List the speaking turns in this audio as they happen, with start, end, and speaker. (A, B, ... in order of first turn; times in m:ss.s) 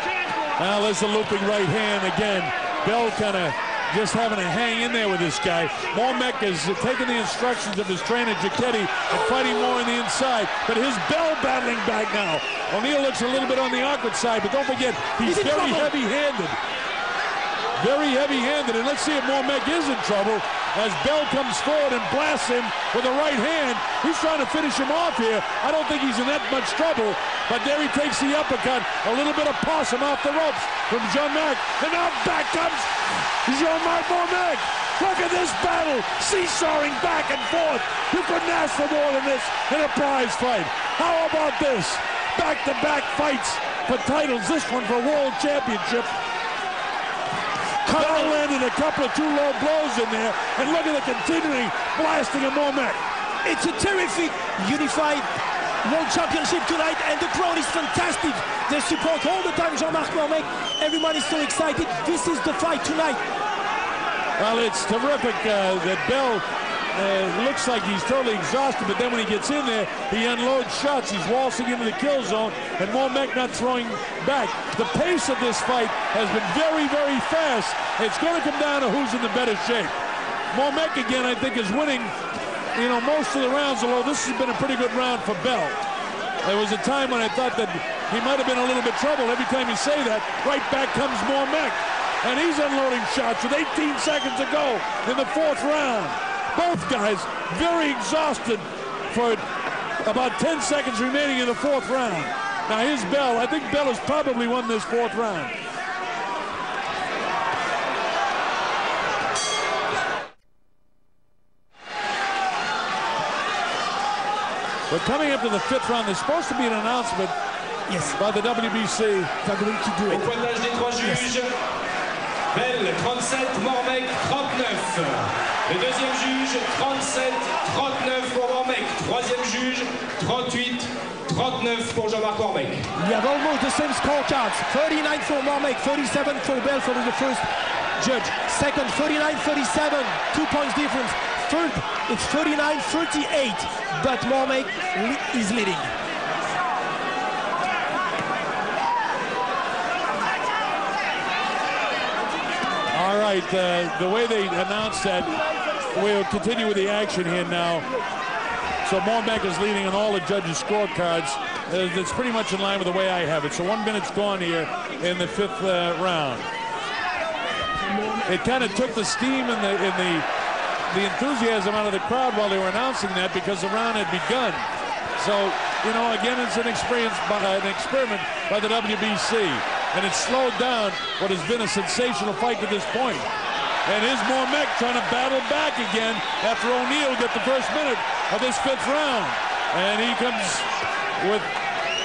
0:00.6-0:16.6 A
0:15.2-0:16.0 B
0:17.8-0:46.1 A
0:47.8-0:48.4 B
0:48.0-0:53.0 A
0:53.4-0:55.3 B
0:55.8-1:03.2 B
1:04.4-1:20.0 A
1:20.5-1:22.1 A
1:22.8-1:25.8 A
1:26.4-1:39.4 A
1:40.0-1:45.5 A
1:54.9-1:57.3 A
1:57.9-1:58.2 B
1:58.2-1:59.3 A
1:59.4-2:00.3 B
2:00.1-2:01.5 C
2:01.0-2:01.3 B
2:02.5-2:12.9 C
2:13.0-2:17.5 B
2:18.0-2:25.9 B
2:32.9-2:35.4 A
2:35.9-2:37.9 A
2:38.8-2:46.5 A
2:47.8-2:48.8 B
2:48.3-2:50.3 A
2:50.9-2:54.6 A
2:55.2-3:03.3 A
3:03.9-3:10.7 A
3:11.2-3:11.5 A